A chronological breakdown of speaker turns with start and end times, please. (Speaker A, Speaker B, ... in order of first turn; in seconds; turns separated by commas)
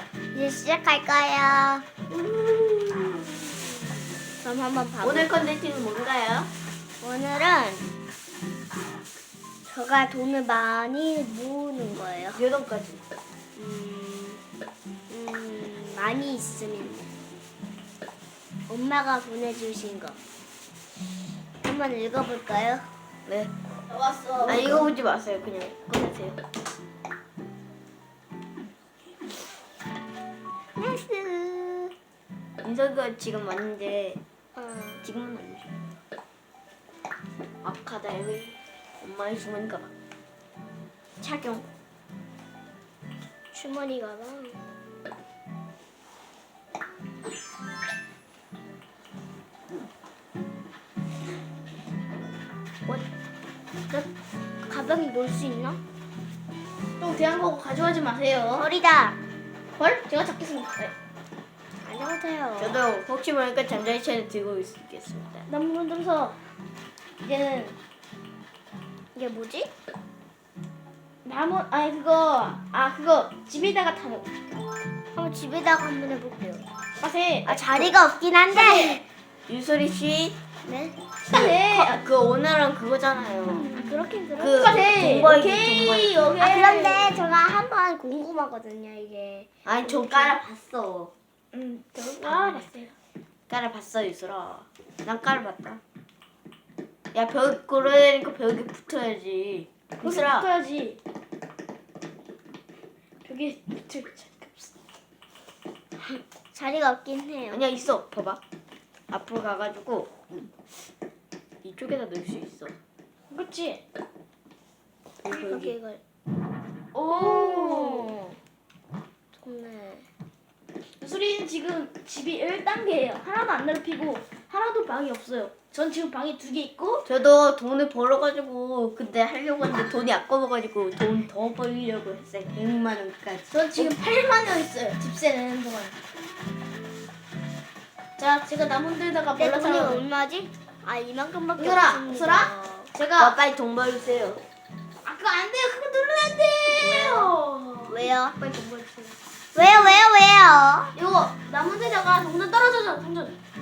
Speaker A: 0.3-1.8, Speaker B: 2.1-3.3, Speaker A: 4.4-5.3, Speaker B: 5.0-6.5, Speaker A: 7.0-7.9, Speaker A: 9.7-12.4, Speaker B: 12.3-13.0, Speaker A: 13.6-14.4, Speaker A: 15.1-17.1, Speaker A: 18.7-20.2, Speaker A: 21.6-22.9, Speaker C: 23.9-24.9, Speaker A: 24.4-24.9, Speaker B: 24.4-26.4, Speaker A: 30.8-31.9, Speaker B: 32.6-34.2, Speaker A: 34.5-35.0, Speaker B: 35.0-35.7, Speaker B: 37.6-39.9, Speaker B: 41.2-41.6, Speaker A: 43.5-44.6, Speaker A: 54.7-55.8, Speaker C: 57.0-58.7, Speaker A: 58.5-59.2, Speaker C: 59.8-60.9, Speaker A: 61.8-62.8, Speaker B: 62.6-65.5, Speaker C: 65.5-66.4, Speaker C: 67.2-67.8, Speaker A: 69.1-69.7, Speaker C: 71.2-74.3, Speaker A: 75.1-76.6, Speaker C: 77.0-77.6, Speaker A: 77.5-79.0, Speaker B: 77.5-77.9, Speaker C: 78.5-79.0, Speaker B: 79.5-80.3, Speaker A: 80.6-80.9, Speaker C: 81.3-82.0, Speaker B: 81.3-83.7, Speaker A: 83.5-85.5, Speaker C: 83.8-87.1, Speaker B: 84.4-86.3, Speaker A: 86.4-90.4, Speaker B: 89.6-91.1, Speaker C: 91.5-92.9, Speaker B: 92.2-92.6, Speaker B: 93.5-95.8, Speaker B: 97.1-100.5, Speaker C: 100.0-101.0, Speaker C: 103.2-104.7, Speaker A: 106.1-107.6, Speaker B: 107.5-108.4, Speaker B: 109.1-110.1, Speaker B: 111.6-112.7, Speaker C: 113.3-113.8, Speaker B: 115.2-115.8, Speaker A: 115.3-116.0, Speaker C: 116.9-118.2, Speaker A: 117.1-118.3, Speaker A: 119.4-120.1, Speaker C: 121.0-127.1, Speaker B: 127.0-133.9, Speaker C: 133.5-135.9, Speaker C: 138.2-140.0, Speaker A: 139.4-142.9, Speaker C: 141.6-143.4, Speaker B: 143.2-144.4, Speaker C: 145.0-147.9, Speaker A: 146.8-147.3, Speaker A: 147.9-148.3, Speaker B: 148.4-149.1, Speaker A: 149.5-150.9, Speaker C: 150.9-153.3